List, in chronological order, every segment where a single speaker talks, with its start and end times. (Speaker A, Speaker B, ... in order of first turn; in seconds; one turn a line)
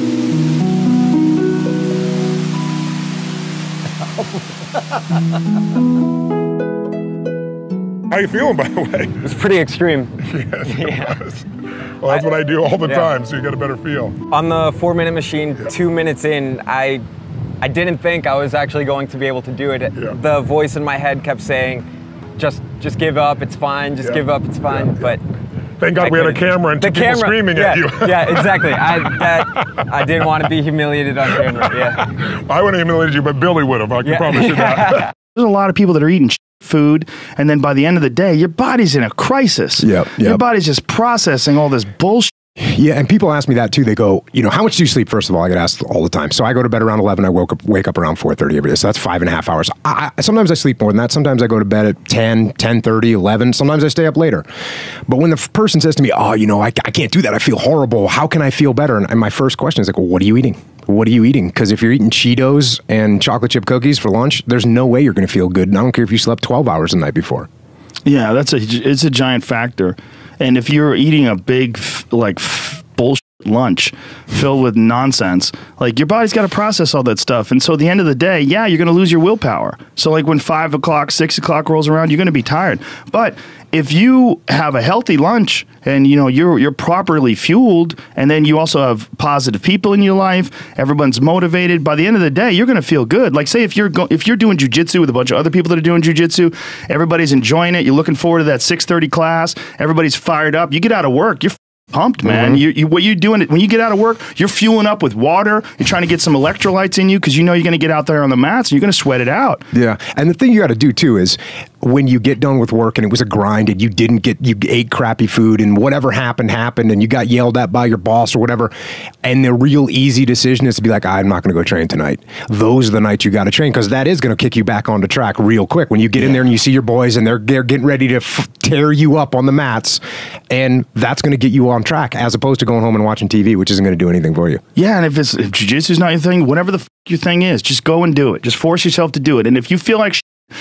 Speaker A: 8.1-9.2
Speaker B: 9.2-10.1
Speaker A: 10.2-11.4
Speaker B: 10.7-11.2
Speaker A: 12.0-14.2
Speaker B: 12.8-13.1
Speaker B: 14.3-17.0
Speaker B: 17.6-25.2
Speaker A: 24.0-25.1
Speaker A: 25.8-28.7
Speaker B: 26.0-32.0
Speaker A: 31.3-35.1
Speaker B: 34.0-35.1
Speaker C: 35.3-42.4
Speaker D: 39.8-40.4
Speaker D: 42.6-54.5
Speaker D: 55.1-67.5
Speaker C: 68.0-109.6
Speaker D: 102.2-102.6
Speaker D: 109.7-134.6
Speaker C: 126.2-126.4
Speaker C: 134.7-140.2